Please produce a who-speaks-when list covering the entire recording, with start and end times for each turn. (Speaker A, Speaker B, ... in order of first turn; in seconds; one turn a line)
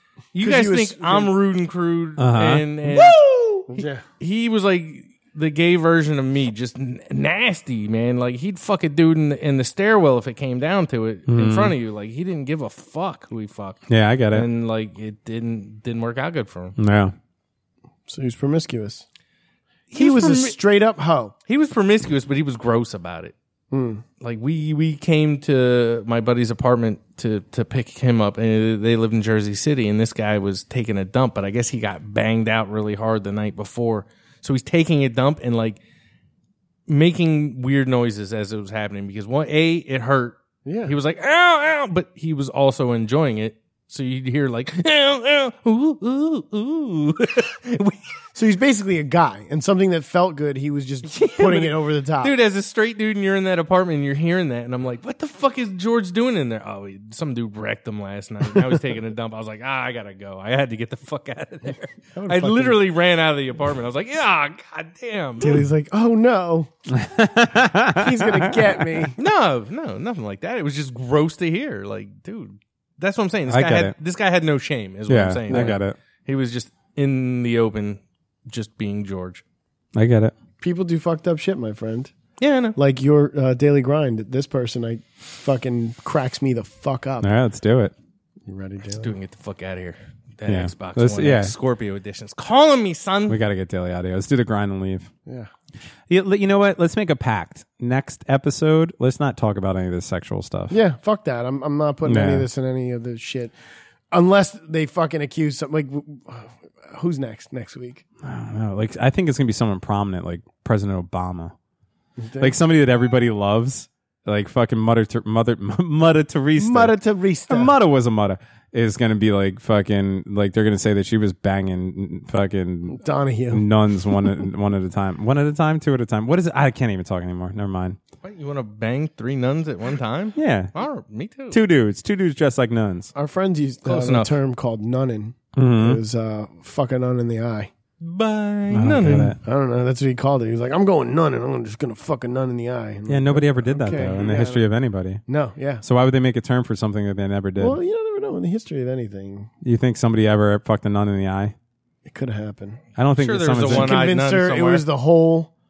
Speaker A: 0.3-16.8
Speaker B: 0.4-1.3
Speaker C: 2.2-2.7
Speaker B: 2.9-4.0
Speaker C: 11.3-11.7
Speaker C: 13.9-14.5
Speaker C: 16.8-17.1
Speaker B: 18.1-19.0
Speaker A: 19.9-20.6
Speaker B: 19.9-21.3
Speaker A: 21.5-23.3
Speaker B: 23.7-24.0
Speaker A: 24.2-35.8
Speaker A: 36.9-48.0
Speaker B: 40.6-40.9
Speaker B: 48.3-52.3
Speaker A: 51.0-65.6
Speaker B: 62.1-62.8
Speaker B: 65.4-66.7
Speaker C: 66.9-69.1
Speaker B: 67.9-69.2
Speaker A: 69.2-79.4
Speaker C: 73.5-73.9
Speaker C: 75.1-76.0
Speaker B: 75.5-75.8
Speaker C: 79.9-80.3
Speaker B: 80.6-82.1
Speaker A: 82.4-82.8
Speaker B: 82.7-87.3
Speaker C: 87.2-87.9
Speaker B: 88.5-89.1
Speaker A: 89.0-93.4
Speaker C: 90.5-91.5
Speaker C: 93.3-95.1
Speaker C: 96.1-100.7
Speaker B: 100.7-103.5
Speaker C: 102.0-102.5
Speaker B: 104.1-108.0
Speaker C: 108.2-111.5
Speaker B: 112.2-112.5
Speaker C: 112.4-117.0
Speaker B: 116.6-117.7
Speaker C: 117.5-128.0
Speaker B: 122.9-123.7
Speaker A: 128.2-131.6
Speaker C: 130.3-130.7
Speaker C: 131.5-133.1
Speaker B: 133.1-137.7
Speaker A: 133.8-134.4
Speaker C: 135.6-136.0
Speaker A: 138.0-139.3
Speaker C: 138.7-139.4
Speaker B: 139.4-144.7
Speaker C: 143.1-145.2
Speaker B: 145.3-145.8
Speaker C: 145.8-147.8
Speaker B: 147.6-149.5
Speaker C: 149.6-151.5
Speaker B: 152.1-152.8
Speaker C: 152.9-154.0
Speaker A: 153.2-154.8
Speaker B: 153.7-155.5